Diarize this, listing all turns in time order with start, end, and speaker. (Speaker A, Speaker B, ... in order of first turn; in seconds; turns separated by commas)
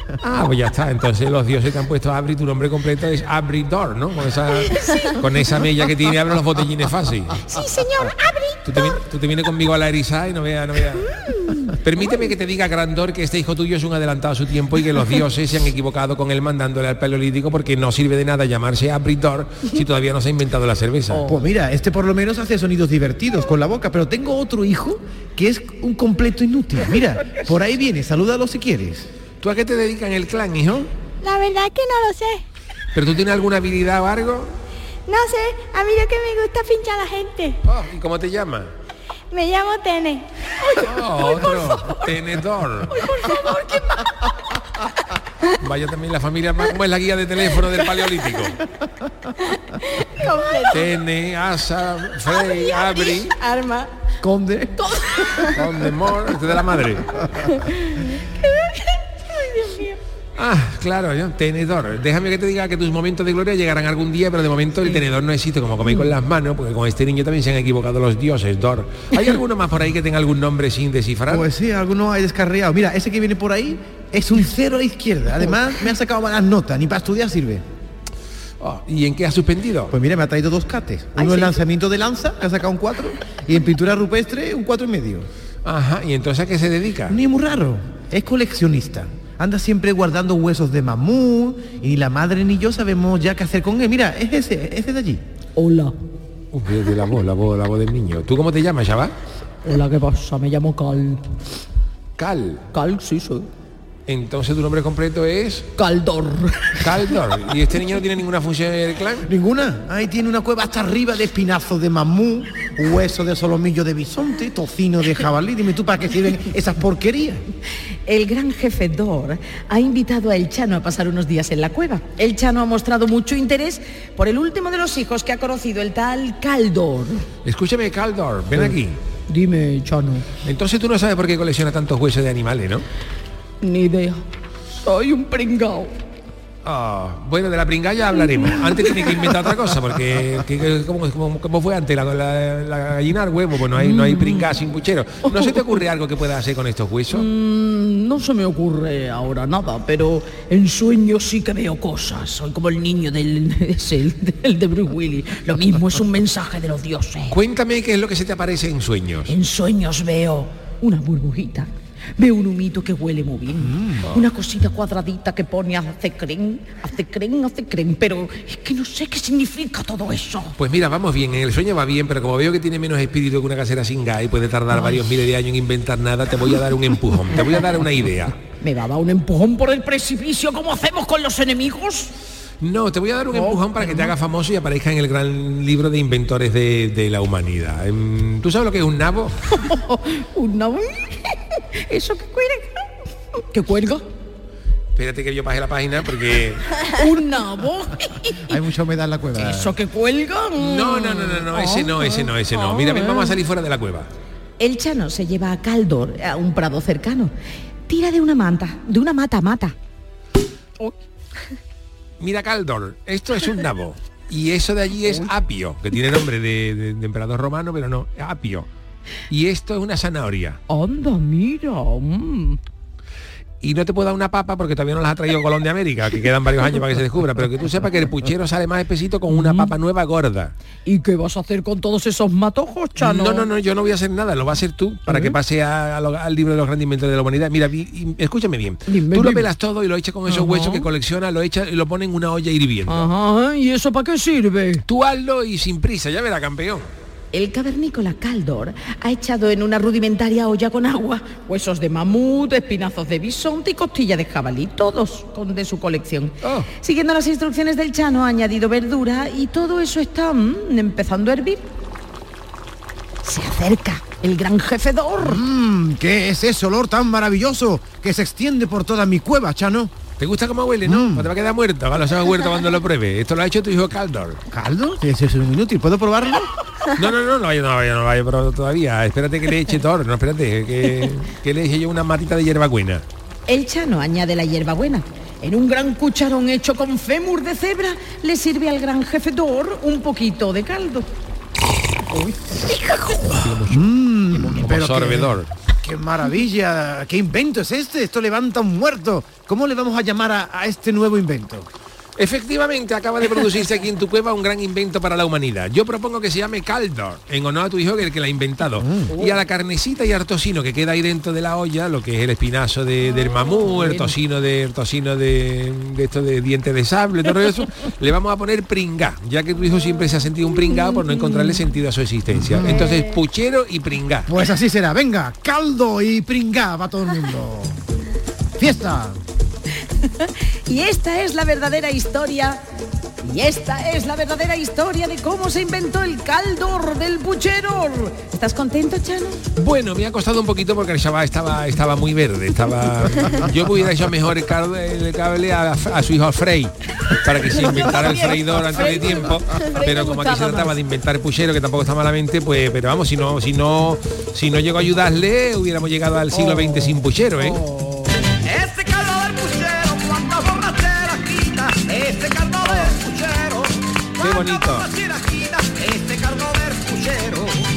Speaker A: 0.2-7.4, Speaker B: 4.5-5.2, Speaker B: 7.5-9.0, Speaker A: 8.7-11.2, Speaker B: 11.1-11.8, Speaker A: 11.8-21.2, Speaker B: 21.1-21.4, Speaker C: 21.3-29.1, Speaker A: 29.4-30.9, Speaker D: 31.2-32.4, Speaker A: 32.9-34.5, Speaker D: 35.1-37.6, Speaker A: 37.6-38.7, Speaker D: 39.3-40.3, Speaker B: 40.6-42.2, Speaker A: 40.8-43.0, Speaker B: 42.9-44.3, Speaker A: 45.6-48.6, Speaker D: 50.0-50.9, Speaker A: 50.7-53.4, Speaker D: 52.9-53.9, Speaker C: 54.2-55.0, Speaker B: 54.8-55.4, Speaker A: 55.5-57.2, Speaker B: 59.5-59.9, Speaker A: 60.4-71.5, Speaker C: 71.3-77.6, Speaker A: 78.6-79.9, Speaker C: 79.9-85.3, Speaker B: 81.2-81.6, Speaker A: 85.7-87.2, Speaker C: 87.1-95.2, Speaker B: 95.6-96.0, Speaker A: 96.5-99.1, Speaker B: 99.6-101.2, Speaker A: 102.2-102.6, Speaker B: 102.7-103.5, Speaker A: 104.1-105.7, Speaker B: 105.8-106.9, Speaker A: 106.8-109.3, Speaker C: 109.3-117.5, Speaker B: 118.1-127.3, Speaker A: 127.5-129.0, Speaker B: 129.3-130.3, Speaker A: 130.4-132.8, Speaker B: 133.6-134.2, Speaker B: 134.8-135.9, Speaker A: 136.6-147.3, Speaker B: 143.7-144.5, Speaker B: 145.2-145.8, Speaker B: 147.1-157.4, Speaker A: 157.3-159.3, Speaker B: 159.3-170.6, Speaker C: 163.6-164.1, Speaker A: 170.6-178.3, Speaker B: 178.6-182.1, Speaker A: 182.6-189.3, Speaker B: 183.3-184.1, Speaker B: 189.5-192.9, Speaker B: 193.4-194.1, Speaker A: 195.0-196.8, Speaker B: 196.9-198.6, Speaker C: 198.5-199.7, Speaker B: 199.4-203.4, Speaker A: 200.6-204.1, Speaker B: 204.6-207.3, Speaker B: 207.9-209.8, Speaker A: 212.2-218.7, Speaker A: 219.3-220.6, Speaker B: 220.7-222.6, Speaker A: 223.6-230.5, Speaker B: 229.3-229.7, Speaker B: 230.9-233.5, Speaker A: 233.0-243.1, Speaker B: 235.1-235.4, Speaker B: 238.9-239.5, Speaker B: 240.3-240.9, Speaker B: 242.9-244.8, Speaker A: 244.9-246.9, Speaker B: 247.3-261.7, Speaker A: 256.4-256.7, Speaker B: 263.2-265.4, Speaker C: 265.2-270.0, Speaker A: 270.2-274.4, Speaker C: 270.9-271.3, Speaker C: 274.5-276.5, Speaker A: 276.9-283.0, Speaker B: 283.5-291.1, Speaker B: 292.7-293.4, Speaker A: 293.3-295.5, Speaker C: 293.7-301.7, Speaker A: 302.2-324.3, Speaker C: 308.8-309.1, Speaker B: 309.1-309.4, Speaker B: 313.7-314.1, Speaker B: 320.9-321.6, Speaker C: 322.3-322.9, Speaker C: 324.3-327.8, Speaker C: 328.6-329.2, Speaker B: 330.0-332.6, Speaker B: 333.2-339.4, Speaker A: 339.6-357.6, Speaker D: 347.9-350.7, Speaker B: 348.8-349.1, Speaker B: 356.3-358.3, Speaker E: 358.4-367.6, Speaker B: 362.7-363.0, Speaker A: 364.2-364.9